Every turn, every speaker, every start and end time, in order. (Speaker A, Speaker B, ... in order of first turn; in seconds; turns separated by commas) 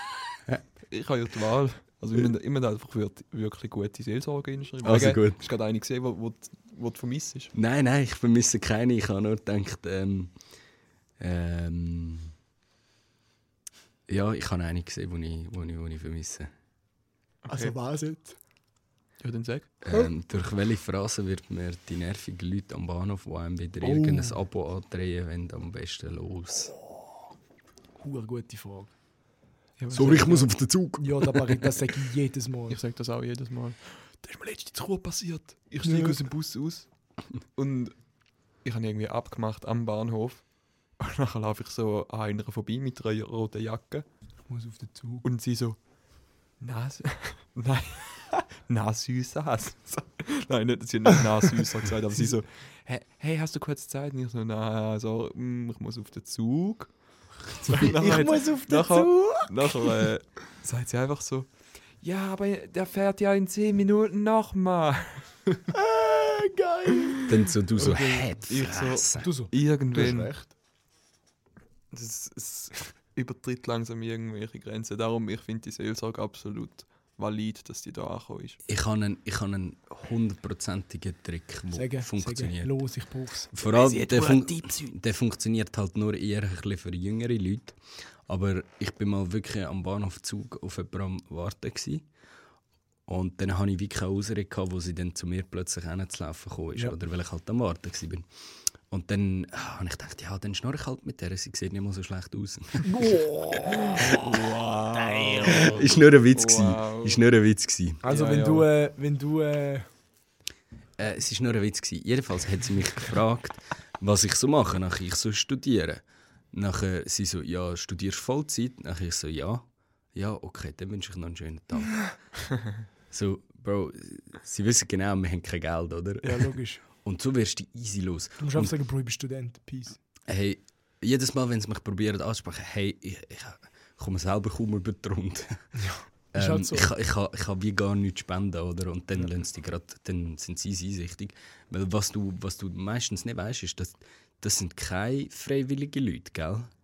Speaker A: 0.9-7.5, Speaker B: 4.8-5.4, Speaker B: 7.5-10.3, Speaker B: 11.2-12.3, Speaker B: 14.1-16.5, Speaker A: 17.4-17.7, Speaker C: 17.5-18.4, Speaker A: 19.2-19.7, Speaker B: 19.8-26.7, Speaker C: 23.8-24.4, Speaker C: 28.0-28.9, Speaker A: 29.8-30.5, Speaker B: 29.9-31.8, Speaker C: 30.1-30.4, Speaker C: 31.0-32.8, Speaker A: 32.7-36.9, Speaker C: 35.8-36.2, Speaker A: 37.5-37.9, Speaker A: 38.6-40.5, Speaker A: 41.0-44.0, Speaker C: 44.5-45.2, Speaker A: 45.2-45.8, Speaker A: 46.6-61.5, Speaker C: 57.8-60.1, Speaker A: 62.0-65.7, Speaker C: 65.7-67.2, Speaker B: 67.2-69.3, Speaker A: 67.8-70.3, Speaker C: 69.2-70.5, Speaker A: 71.9-78.6, Speaker B: 78.7-82.8, Speaker C: 81.7-84.2, Speaker B: 83.5-92.0, Speaker B: 93.1-98.2, Speaker B: 98.9-103.1, Speaker C: 102.8-104.2, Speaker A: 103.7-107.2, Speaker C: 105.0-105.7, Speaker B: 105.4-108.0, Speaker C: 108.0-109.9, Speaker A: 108.0-108.7, Speaker B: 111.0-122.0, Speaker B: 123.1-128.7, Speaker C: 126.2-126.8, Speaker C: 128.4-130.0, Speaker B: 130.3-135.8, Speaker C: 135.8-136.9, Speaker B: 136.3-146.7